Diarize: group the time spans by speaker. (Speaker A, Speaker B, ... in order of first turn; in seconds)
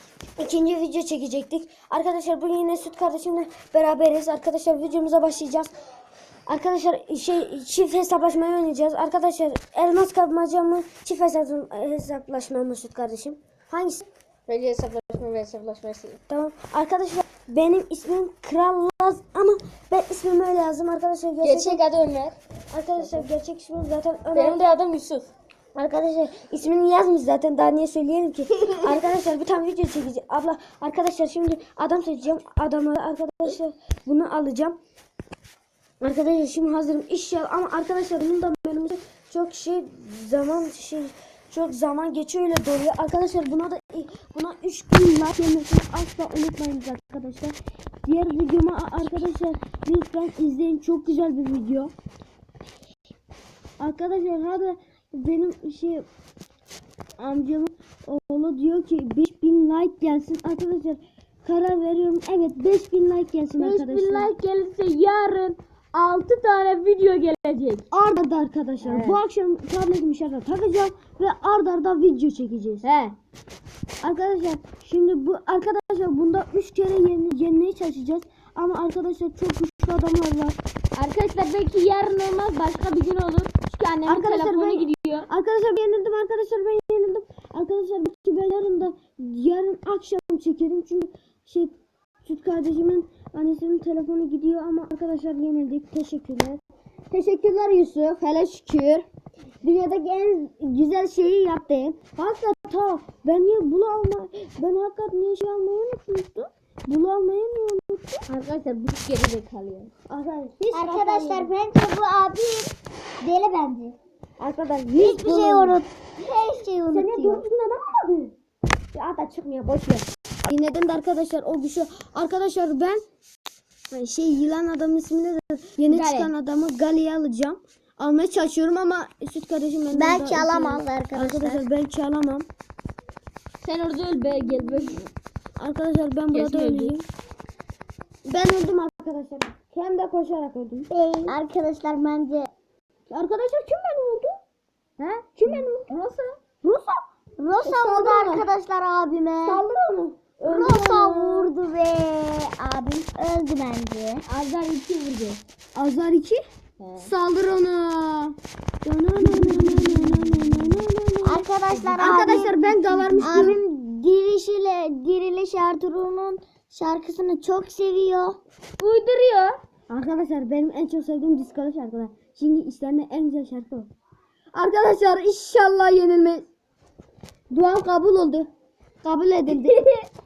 Speaker A: 0.4-5.7, 6.5-14.1, 16.3-21.8, 22.7-24.6, 25.8-34.8, 36.0-51.9, 53.8-56.1, 57.2-64.3, 67.9-72.9, 74.0-80.6, 84.1-96.6, 97.1-99.0, 99.6-108.3, 110.1-111.5, 114.4-115.8, 116.9-118.3, 118.9-123.0, 123.9-132.5, 135.6-137.1, 138.3-140.9, 143.1-144.4, 145.3-145.9, 146.6-146.9, 147.6-148.5, 149.4-151.5, 155.8-156.4, 157.0-161.4, 162.0-163.6, 169.9-173.9, 174.5-176.5, 177.5-178.5, 179.0-179.8
Speaker B: 14.5-16.2, 21.4-22.4, 24.3-25.3, 63.6-67.8, 68.8-69.2, 72.8-73.2, 81.0-85.3, 108.3-109.9, 125.9-126.3, 133.6-135.1, 136.3-137.0, 145.0-146.3, 154.3-155.4, 156.8-157.1, 159.3-160.7, 161.7-163.6, 168.8-169.6, 179.5-180.1
Speaker C: 110.7-114.0, 115.0-117.4, 129.9-131.7, 140.9-142.5, 147.4-149.6, 150.4-154.2, 161.2-168.4